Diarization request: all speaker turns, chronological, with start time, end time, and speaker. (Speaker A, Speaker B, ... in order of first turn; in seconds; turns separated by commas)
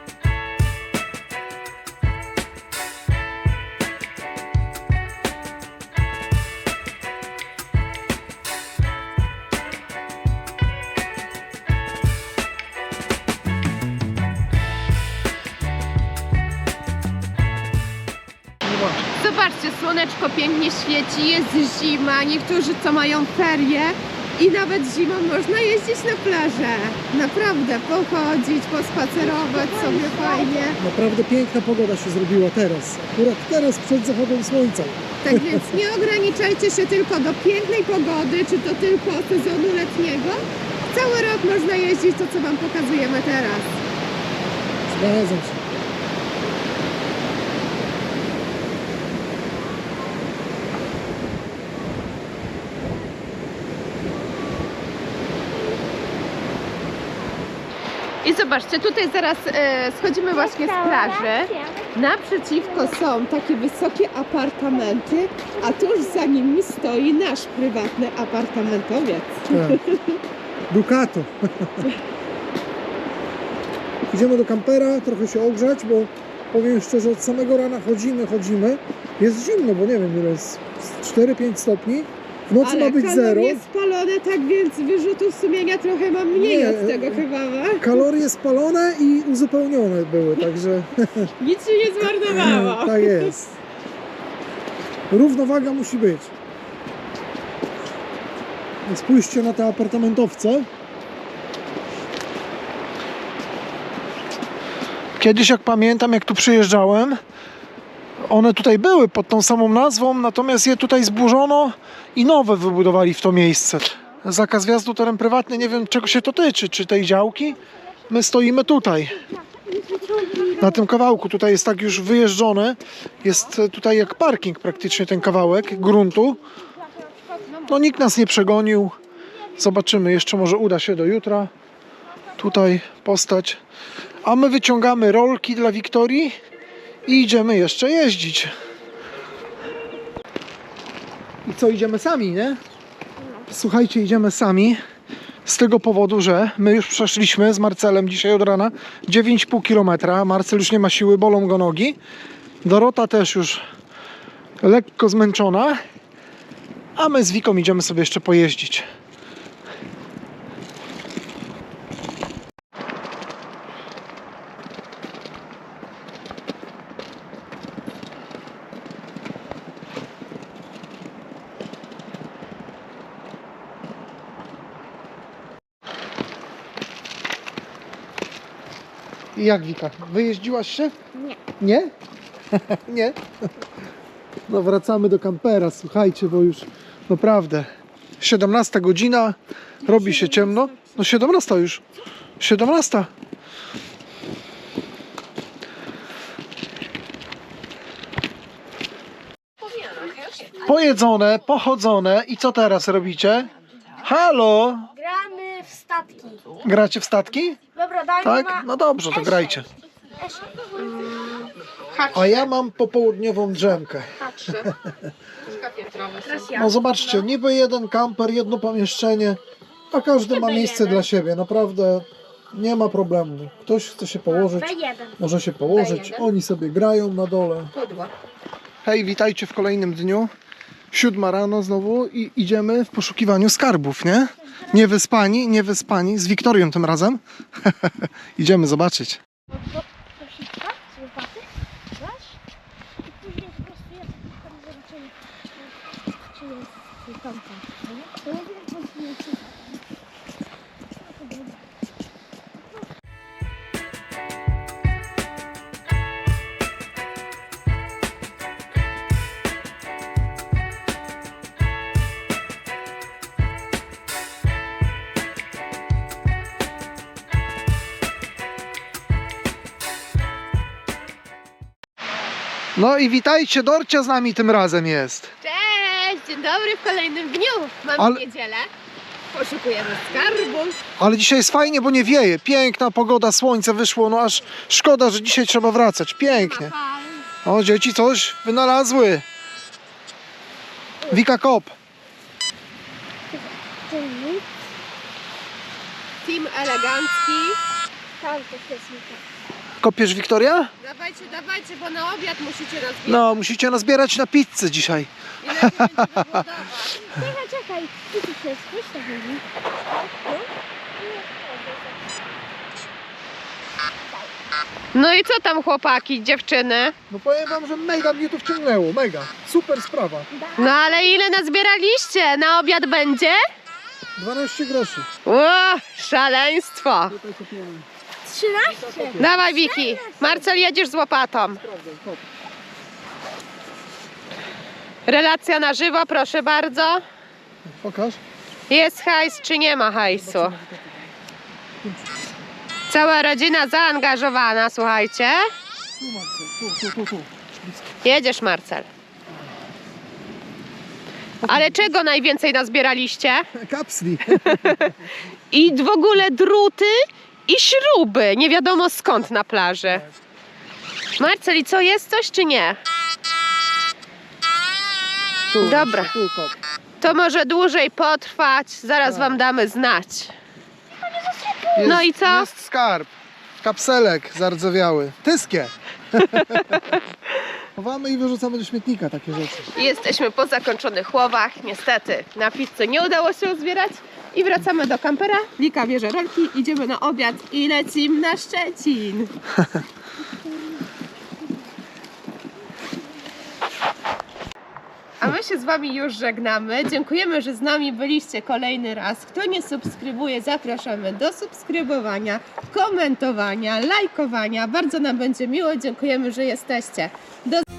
Speaker A: 18.6-19.0, Speaker B: 19.2-30.8, Speaker C: 29.4-30.6, Speaker A: 30.8-35.8, Speaker B: 35.2-43.8, Speaker A: 44.9-45.6, Speaker B: 58.2-70.2, Speaker C: 60.3-61.8, Speaker A: 69.5-69.8, Speaker A: 70.7-71.9, Speaker A: 74.1-83.6, Speaker B: 82.6-88.0, Speaker A: 86.3-87.2, Speaker A: 87.8-91.3, Speaker B: 91.4-93.3, Speaker A: 92.2-93.5, Speaker A: 95.1-96.3, Speaker A: 98.8-100.7, Speaker A: 105.2-107.2, Speaker A: 108.2-119.2, Speaker C: 119.7-120.6, Speaker A: 120.6-126.4, Speaker B: 127.5-127.7, Speaker A: 127.7-128.9, Speaker A: 129.5-131.5, Speaker A: 132.4-133.6, Speaker A: 134.2-136.3, Speaker A: 137.1-138.5, Speaker A: 141.4-142.6, Speaker A: 143.5-144.8, Speaker A: 145.4-152.0, Speaker A: 152.6-153.6, Speaker A: 154.6-155.8, Speaker A: 156.9-158.8, Speaker A: 179.3-180.9, Speaker A: 181.5-181.9, Speaker A: 182.5-183.2, Speaker A: 184.5-187.7, Speaker A: 188.2-191.8, Speaker C: 189.9-190.3, Speaker A: 192.4-193.1, Speaker B: 199.8-200.5, Speaker A: 200.6-203.5, Speaker A: 204.0-204.9, Speaker C: 205.0-206.5, Speaker A: 206.6-207.6, Speaker C: 207.7-208.7, Speaker A: 208.2-209.7, Speaker C: 210.2-211.3, Speaker B: 210.9-212.3, Speaker A: 212.1-214.9, Speaker C: 214.3-214.5, Speaker B: 215.5-216.6, Speaker A: 216.5-219.4, Speaker A: 219.9-227.7, Speaker C: 224.4-225.2, Speaker B: 225.7-226.3, Speaker B: 227.7-228.1, Speaker A: 228.8-230.3, Speaker A: 230.9-239.2, Speaker C: 239.5-242.4, Speaker C: 243.1-249.8, Speaker C: 251.0-251.6, Speaker A: 272.7-275.3, Speaker B: 275.4-278.7, Speaker A: 278.0-278.2, Speaker B: 279.3-280.8, Speaker A: 281.0-286.7, Speaker B: 286.2-287.3, Speaker A: 287.4-289.2, Speaker A: 291.1-291.7, Speaker C: 293.3-294.5, Speaker B: 296.2-297.6, Speaker C: 298.2-299.2, Speaker A: 299.8-300.7, Speaker B: 300.8-303.3, Speaker A: 303.1-305.1, Speaker B: 305.4-307.1, Speaker A: 305.6-306.3, Speaker C: 307.0-312.0, Speaker B: 314.9-316.9, Speaker A: 317.1-320.3, Speaker C: 320.3-321.1, Speaker B: 320.6-323.4, Speaker A: 324.1-325.1, Speaker B: 325.2-327.1, Speaker A: 327.1-327.8, Speaker C: 328.2-330.3, Speaker A: 328.6-329.4, Speaker B: 329.2-331.6, Speaker A: 331.6-332.2, Speaker B: 335.1-337.0, Speaker A: 337.7-338.2, Speaker B: 338.7-340.6, Speaker A: 340.1-341.1, Speaker A: 341.8-342.1, Speaker B: 342.9-345.4, Speaker A: 346.0-347.9, Speaker B: 348.0-348.9, Speaker A: 351.4-351.8, Speaker B: 351.4-353.5, Speaker A: 353.5-355.0, Speaker B: 354.3-355.0, Speaker B: 355.5-356.9, Speaker B: 357.5-360.0, Speaker B: 361.2-362.8, Speaker A: 365.5-366.6, Speaker B: 365.6-366.1, Speaker B: 367.0-370.3, Speaker A: 369.0-369.4, Speaker C: 371.0-371.9, Speaker A: 371.8-376.9, Speaker B: 371.8-372.5, Speaker A: 377.8-379.8, Speaker B: 379.7-389.3, Speaker B: 395.2-407.6